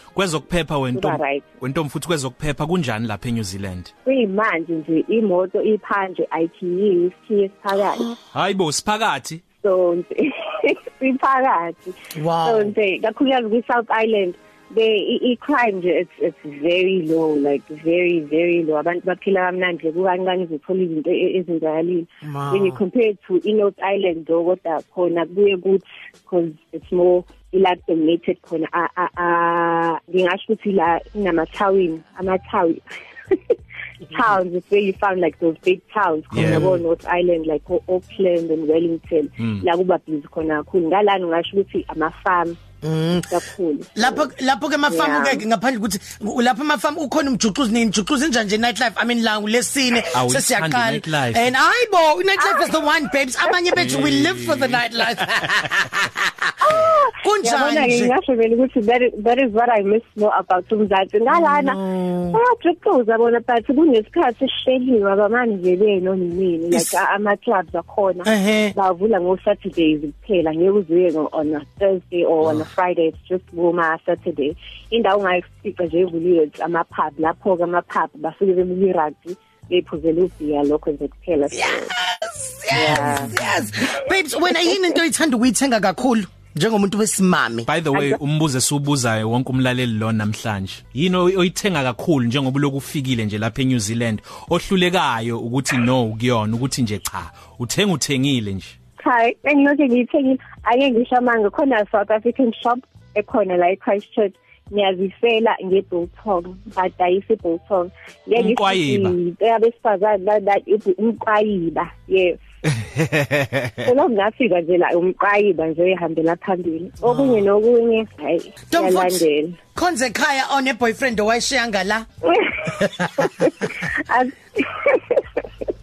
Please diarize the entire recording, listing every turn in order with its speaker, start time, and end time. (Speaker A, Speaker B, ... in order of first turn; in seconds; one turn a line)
Speaker A: 0.1-3.9
Speaker B: 0.9-1.5
Speaker B: 4.1-8.2
Speaker A: 8.3-9.4
Speaker B: 9.6-42.6
Speaker C: 12.2-12.7
Speaker C: 22.2-22.8
Speaker A: 36.3-36.7
Speaker C: 36.4-36.8
Speaker A: 39.4-39.6
Speaker C: 42.8-43.3
Speaker B: 43.3-44.3
Speaker C: 44.0-56.5
Speaker B: 44.9-45.5
Speaker A: 50.1-51.5
Speaker B: 52.4-52.7
Speaker A: 53.8-55.5
Speaker B: 56.6-61.8
Speaker C: 57.2-58.1
Speaker C: 61.3-62.4
Speaker B: 62.3-81.9
Speaker C: 68.2-68.7
Speaker C: 81.5-87.7
Speaker B: 82.7-83.3
Speaker A: 82.7-83.7
Speaker A: 87.7-98.7
Speaker B: 87.9-88.2
Speaker B: 99.0-112.4
Speaker A: 108.4-109.2
Speaker A: 112.7-113.9
Speaker B: 113.8-119.6
Speaker A: 117.1-117.4
Speaker C: 118.7-119.2
Speaker C: 119.8-122.1
Speaker B: 122.2-125.5
Speaker C: 122.7-123.7